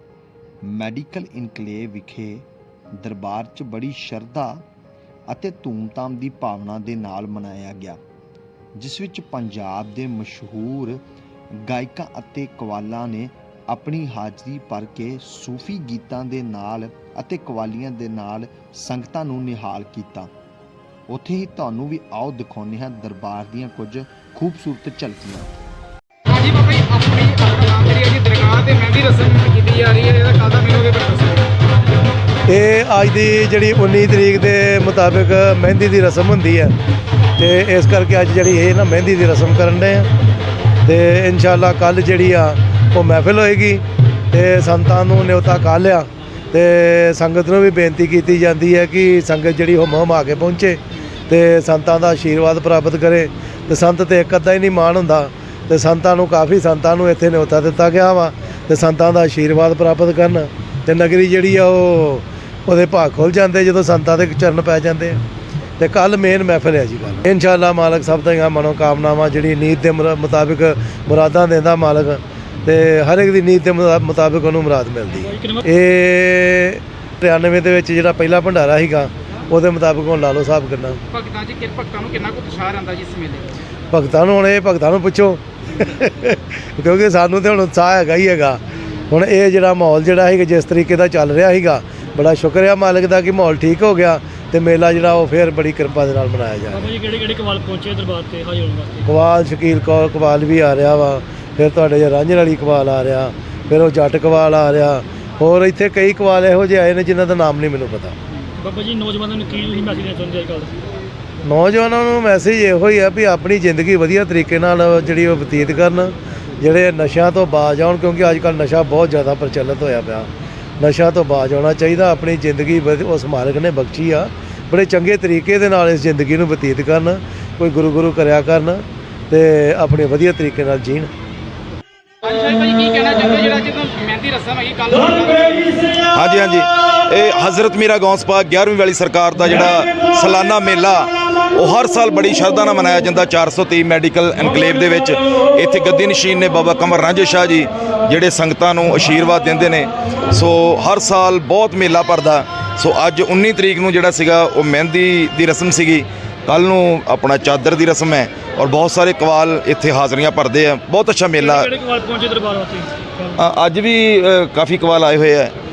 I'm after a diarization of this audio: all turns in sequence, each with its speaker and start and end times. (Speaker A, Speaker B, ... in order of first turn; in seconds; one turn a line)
Speaker A: 0.6-2.5
Speaker A: 3.0-4.6
Speaker A: 5.3-8.0
Speaker A: 8.8-11.0
Speaker A: 11.6-20.3
Speaker A: 21.1-25.5
Speaker B: 26.3-31.5
Speaker C: 32.5-36.8
Speaker C: 37.4-40.1
Speaker C: 40.9-65.2
Speaker C: 65.8-81.0
Speaker B: 81.1-83.6
Speaker C: 83.9-96.9
Speaker D: 96.8-99.0
Speaker C: 99.1-108.2
Speaker D: 108.6-110.8
Speaker C: 111.4-120.3
Speaker C: 120.8-131.1
Speaker B: 132.2-135.9
Speaker E: 136.1-161.7
Speaker D: 161.4-163.0
Speaker E: 163.4-165.5